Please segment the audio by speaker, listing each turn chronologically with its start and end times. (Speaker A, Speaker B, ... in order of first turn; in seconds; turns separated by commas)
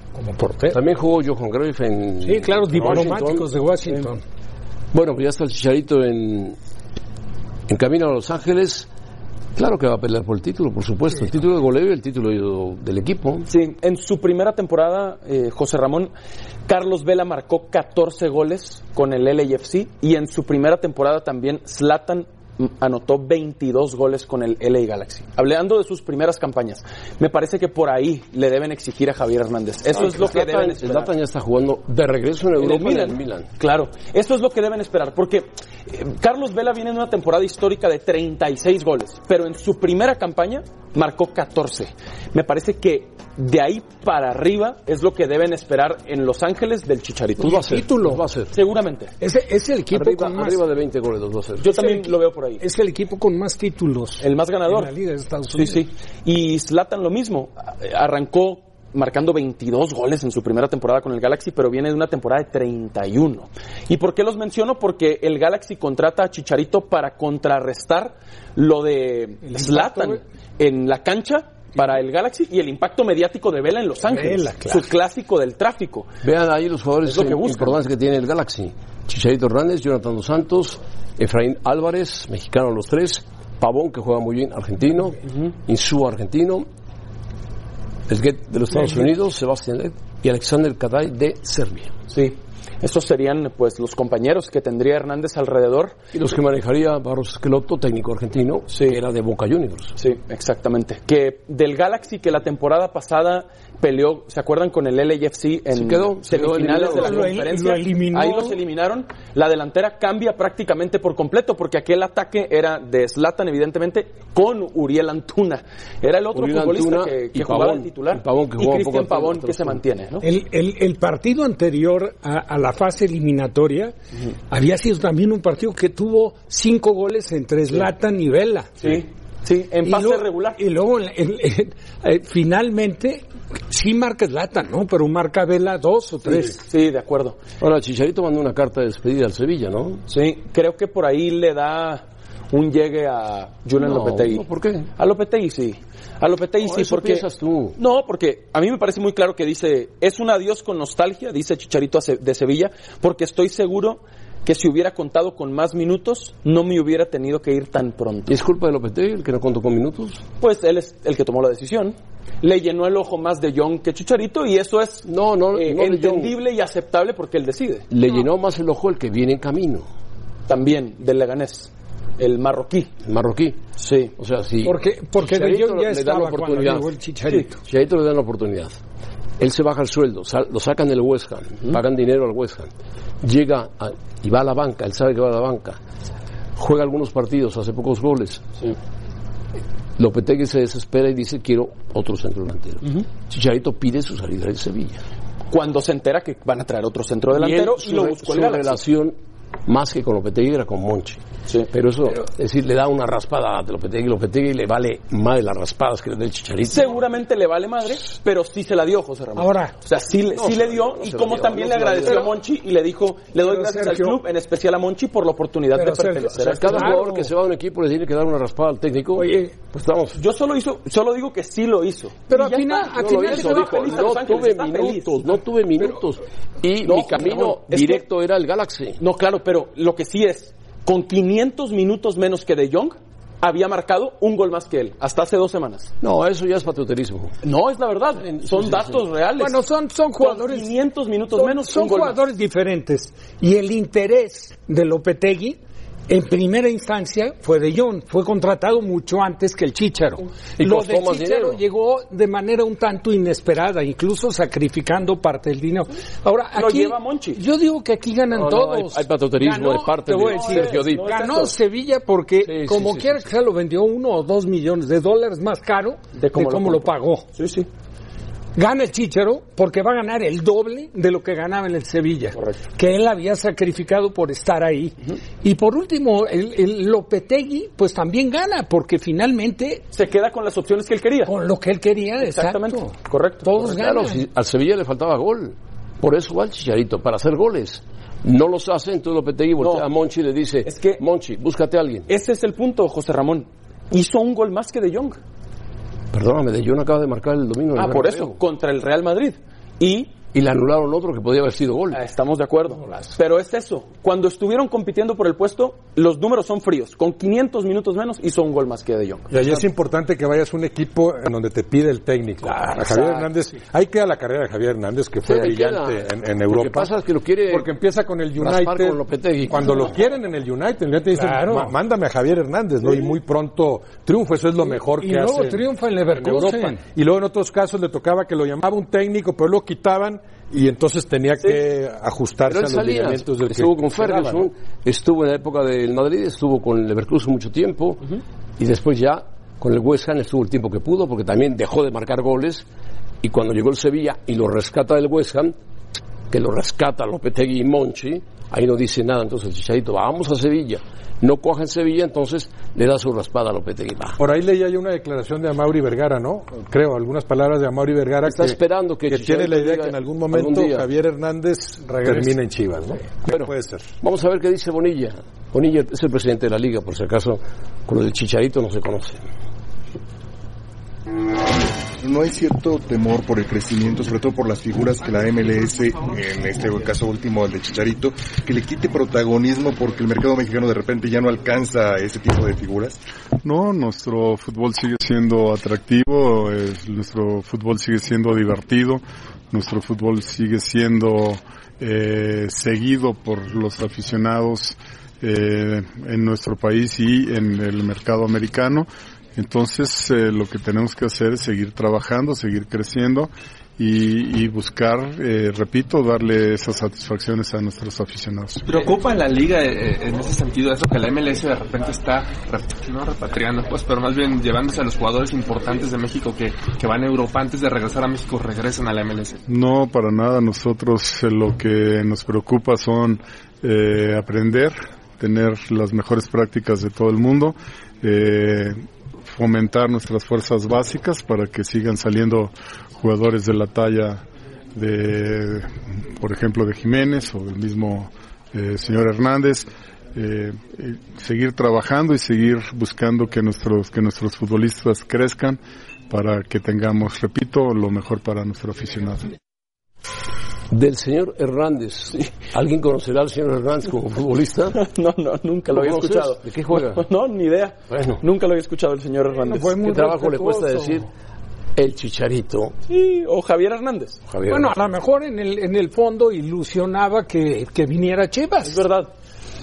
Speaker A: 0.1-0.8, Speaker B: 0.7-3.5, Speaker A: 2.2-4.2, Speaker C: 2.8-3.1, Speaker B: 4.9-6.5, Speaker B: 7.7-8.9, Speaker B: 9.5-13.5, Speaker D: 13.5-16.1, Speaker D: 16.7-31.1, Speaker B: 29.9-33.5, Speaker D: 32.6-47.8, Speaker B: 47.4-48.5, Speaker A: 47.4-48.2, Speaker D: 48.5-49.1, Speaker A: 49.2-50.6, Speaker B: 49.9-51.7, Speaker D: 51.6-52.6, Speaker A: 51.7-55.8, Speaker D: 54.2-54.9, Speaker D: 55.5-76.1, Speaker A: 69.4-70.2, Speaker A: 74.0-74.9, Speaker B: 76.2-86.7, Speaker D: 77.0-77.8, Speaker B: 88.1-91.9, Speaker D: 92.1-96.0, Speaker B: 96.1-100.0, Speaker D: 98.7-99.0, Speaker D: 100.0-120.2, Speaker B: 105.7-107.3, Speaker A: 106.7-108.6, Speaker B: 116.3-119.8, Speaker A: 120.2-123.9, Speaker A: 124.5-128.8, Speaker D: 128.8-130.6, Speaker A: 129.8-136.6, Speaker D: 136.2-137.4, Speaker B: 137.6-140.0, Speaker D: 140.1-144.4, Speaker B: 143.8-144.9, Speaker D: 145.0-147.2, Speaker B: 146.6-147.8, Speaker D: 147.8-158.4, Speaker B: 158.3-160.2, Speaker D: 160.4-167.9, Speaker B: 165.0-166.3, Speaker B: 167.9-169.9, Speaker D: 170.5-172.9, Speaker B: 173.1-173.6, Speaker D: 173.8-174.1, Speaker B: 174.2-176.9, Speaker A: 174.6-177.6, Speaker B: 177.7-178.8, Speaker B: 179.4-182.7, Speaker B: 183.2-185.8, Speaker B: 186.6-188.4, Speaker B: 190.0-195.0, Speaker D: 195.5-198.8, Speaker B: 197.3-207.0, Speaker D: 206.7-217.0, Speaker A: 209.3-209.8, Speaker B: 210.3-212.3, Speaker A: 213.4-214.2, Speaker A: 215.7-217.3, Speaker B: 216.6-220.2, Speaker A: 219.2-219.5, Speaker D: 220.2-225.2, Speaker A: 222.3-224.2, Speaker B: 222.9-229.0, Speaker D: 226.8-228.0, Speaker D: 229.0-235.9, Speaker B: 236.0-237.3, Speaker D: 237.4-239.6, Speaker B: 238.2-239.0, Speaker A: 239.4-240.7, Speaker D: 240.2-242.2, Speaker A: 241.3-267.2, Speaker B: 250.6-251.6, Speaker D: 256.5-257.4, Speaker B: 258.3-261.1, Speaker D: 260.1-261.6, Speaker B: 262.4-263.3, Speaker D: 266.1-267.7, Speaker A: 268.5-279.8, Speaker D: 272.3-272.6, Speaker D: 279.9-281.3, Speaker A: 281.2-284.2, Speaker D: 282.2-283.5, Speaker B: 283.6-292.1, Speaker D: 289.6-289.9, Speaker D: 290.6-291.0, Speaker D: 292.1-295.2, Speaker B: 296.1-298.4, Speaker D: 297.8-300.1, Speaker B: 300.3-302.0, Speaker D: 301.9-309.3, Speaker C: 309.3-316.9, Speaker A: 312.4-313.3, Speaker D: 312.9-313.2, Speaker B: 315.2-317.7, Speaker C: 317.5-325.6, Speaker B: 318.4-319.8, Speaker A: 321.1-321.8, Speaker A: 324.9-326.8, Speaker C: 326.2-334.4, Speaker B: 332.5-338.0, Speaker B: 338.6-342.6, Speaker B: 343.2-345.6, Speaker B: 346.3-354.2, Speaker C: 354.2-363.9, Speaker B: 358.2-360.9, Speaker A: 361.8-362.3, Speaker B: 363.3-369.3, Speaker E: 372.0-383.0, Speaker F: 383.4-408.6, Speaker G: 408.6-419.4, Speaker F: 419.5-434.2, Speaker F: 434.7-445.6, Speaker F: 446.1-449.3, Speaker B: 450.7-454.8, Speaker D: 454.8-459.8, Speaker B: 455.7-457.0, Speaker B: 457.9-458.2, Speaker A: 459.3-461.0, Speaker B: 459.8-461.1, Speaker B: 461.8-462.7, Speaker D: 462.9-464.2, Speaker B: 464.3-464.7, Speaker A: 464.5-468.8, Speaker D: 468.6-469.1